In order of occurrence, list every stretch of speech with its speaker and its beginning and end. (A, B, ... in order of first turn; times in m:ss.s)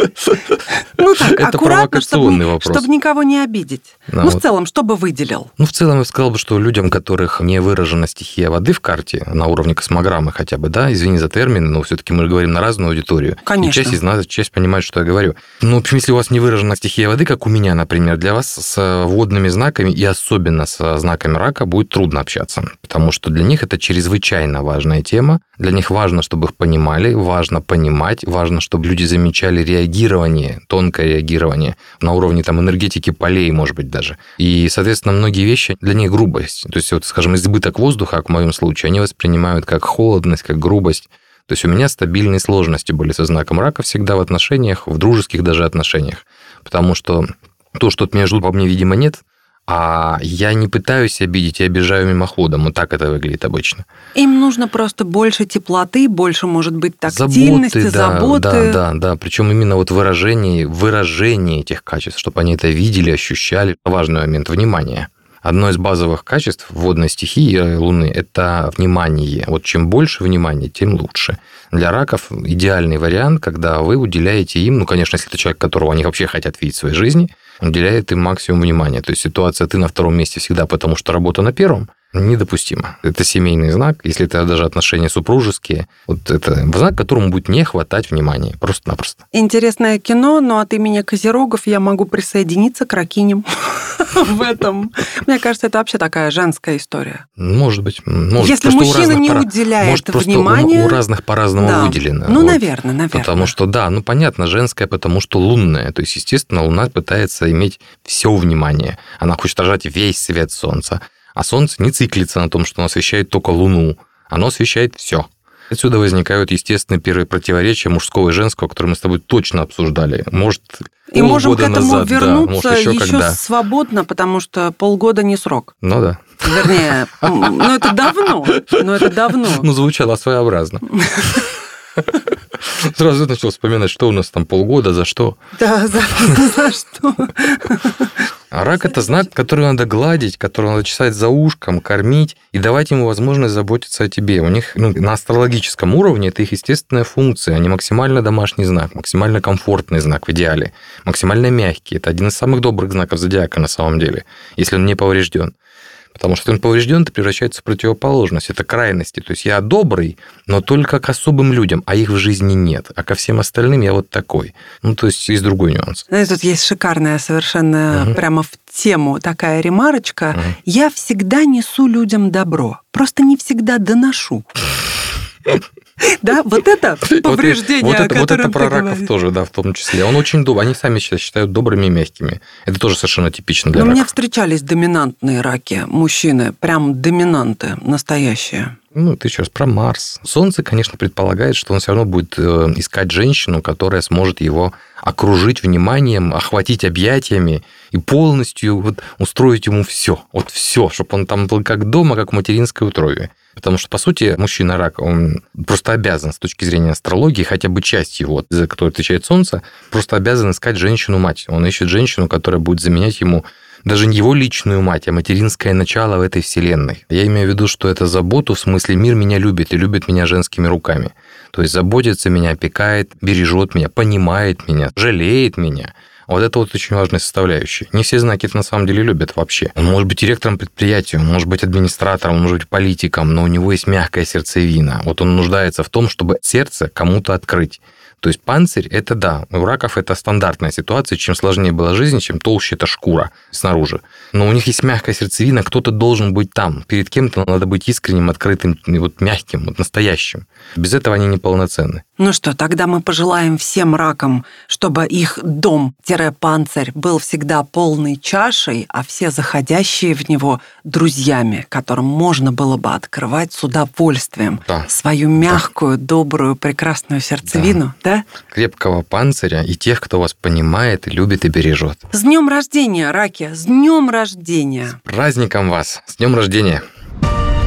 0:00.9-0:05.5 A
0:01.2-0:02.9 B
0:04.1-0:04.4 B
0:05.6-0:53.8 B
0:13.4-0:14.0 A
0:54.1-0:58.8 A
0:57.1-1:29.2 B
1:29.3-1:37.2 A
1:37.4-1:42.6 B
1:38.4-1:41.0 A
1:41.6-1:43.5 A
1:43.1-2:03.4 B
2:01.1-2:05.8 A
2:05.8-2:07.7 B
2:06.4-2:09.7 A
2:08.7-2:15.4 B
2:10.9-2:11.4 A
2:15.6-2:18.1 A
2:18.5-2:35.5 B
2:36.1-2:46.0 B
2:46.1-2:54.5 A
2:56.0-2:59.1 A
2:57.1-3:04.1 B
3:03.7-3:08.8 A
3:08.9-4:12.0 B
4:12.2-4:28.2 A
4:27.5-4:27.8 B
4:28.5-4:32.0 B
4:32.1-4:35.0 A
4:35.0-4:36.8 B